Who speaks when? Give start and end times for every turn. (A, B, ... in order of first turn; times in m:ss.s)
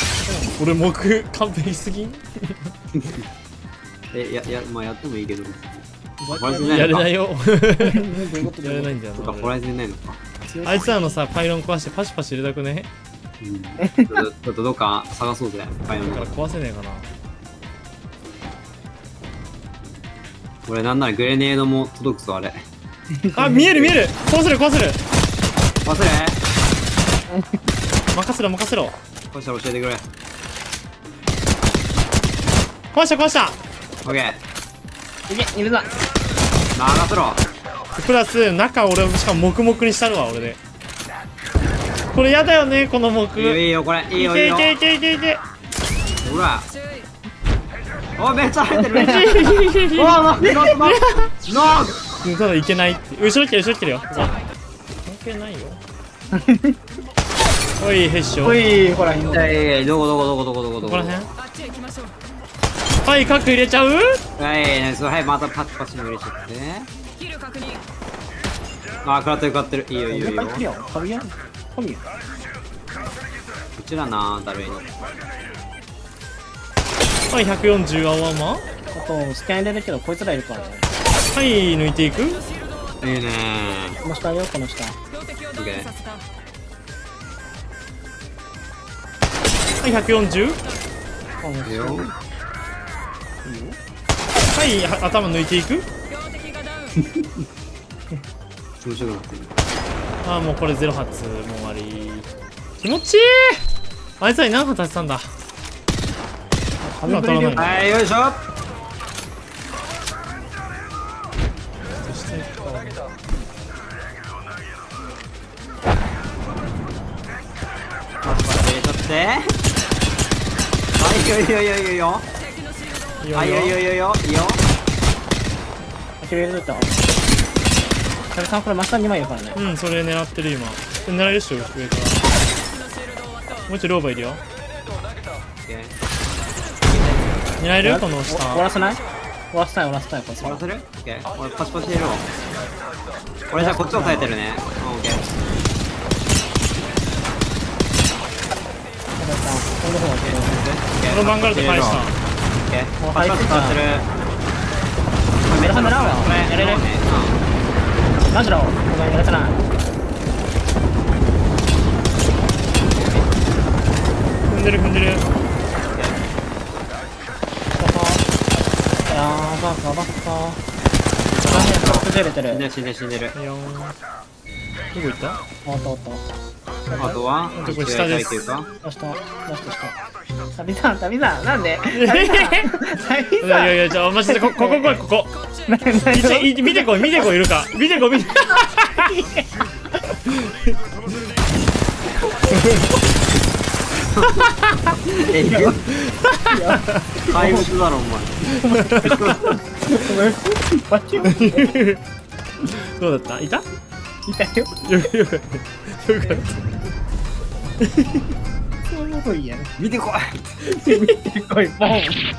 0:00.3-0:00.6 A
0:00.6-0:02.7 B
0:04.1-0:07.1 C
0:06.2-0:07.0 A
0:06.6-0:09.5 B
0:07.8-0:09.0 A
0:09.2-0:10.2 C
0:10.5-0:11.1 A
0:10.6-0:12.9 B
0:13.4-0:16.4 C
0:13.8-0:14.2 A
0:15.9-0:17.1 B
0:20.7-0:22.6 C
0:23.2-0:24.0 A
0:23.3-0:25.0 B
0:25.8-0:26.4 C
0:27.3-0:27.6 A
0:28.1-0:29.0 B
0:29.3-0:30.0 C
0:32.9-0:33.6 B
0:34.0-0:34.4 C
0:35.3-0:35.9 A
0:36.8-0:37.4 C
0:38.0-0:40.6 B
0:42.1-0:45.4 B
0:43.3-0:44.8 C
0:46.2-0:46.7 C
0:48.2-0:52.0 C
0:49.0-0:51.3 B
0:52.2-0:54.4 B
0:55.0-0:55.8 B
0:56.3-0:56.8 A
0:57.8-0:58.6 B
0:58.4-0:59.6 A
0:59.3-1:01.2 C
1:00.8-1:01.3 B
1:03.0-1:04.2 B
1:04.4-1:06.9 C
1:09.0-1:10.6 C
1:10.1-1:12.0 A
1:13.8-1:14.8 C
1:17.3-1:18.6 B
1:18.9-1:20.9 A
1:21.3-1:22.4 B
1:23.0-1:24.0 C
1:24.0-1:25.0 A
1:25.5-1:25.9 C
1:29.8-1:30.6 B
1:31.4-1:32.1 A
1:31.6-1:32.1 C
1:33.4-1:33.8 A
1:34.5-1:35.9 B
1:37.0-1:37.3 C
1:38.8-1:39.5 C
1:40.2-1:42.3 B
1:42.8-1:43.6 B
1:44.2-1:45.3 B
1:46.8-1:47.8 A
1:47.1-1:48.0 B
1:47.6-1:48.4 C
1:52.0-1:53.0 B
1:58.2-1:59.6 C
2:01.0-2:02.3 C
2:03.2-2:03.8 B
2:03.3-2:04.6 C
2:06.2-2:07.0 A
2:08.3-2:09.6 A
2:09.6-2:12.3 B
2:13.7-2:14.4 B
2:15.7-2:16.0 C
2:16.9-2:17.3 C
2:17.6-2:18.6 B
2:17.8-2:19.0 A
2:19.5-2:20.6 A
2:20.4-2:22.3 C
2:23.5-2:25.2 C
2:23.5-2:24.4 A
2:29.2-2:30.6 A
2:30.2-2:32.1 C
2:31.1-2:32.2 B
2:32.6-2:34.1 C
2:33.0-2:33.8 A
2:35.4-2:37.4 C
2:35.6-2:36.8 A
2:38.3-2:39.6 A
2:42.9-2:43.4 C
2:44.5-2:45.3 B
2:45.9-2:46.2 C
2:47.8-2:48.2 A
2:49.1-2:50.6 A
2:51.4-2:51.8 B
2:51.4-2:52.6 A
2:51.7-2:53.4 C
2:53.4-2:54.0 B
2:54.9-2:55.4 B
2:55.6-2:56.3 A
2:56.9-2:57.2 A
2:57.0-2:58.7 C
2:57.6-2:58.5 B
2:58.8-3:00.0 A
3:00.6-3:05.0 A
3:01.9-3:02.8 B
3:03.4-3:05.4 B
3:05.7-3:07.3 A
3:06.1-3:09.1 B
3:09.0-3:09.5 A
3:12.5-3:12.8 B
3:14.3-3:14.5 B
3:15.1-3:15.9 C
3:15.4-3:15.8 A
3:15.9-3:17.0 B
3:16.5-3:17.7 A
3:17.3-3:19.6 C
3:18.6-3:19.2 B
3:18.6-3:21.8 A
3:21.3-3:22.0 B
3:22.6-3:23.6 B
3:24.3-3:25.0 A
3:24.9-3:26.5 B
3:26.2-3:26.5 A
3:28.9-3:29.8 A
3:29.8-3:30.8 C
3:30.7-3:32.2 A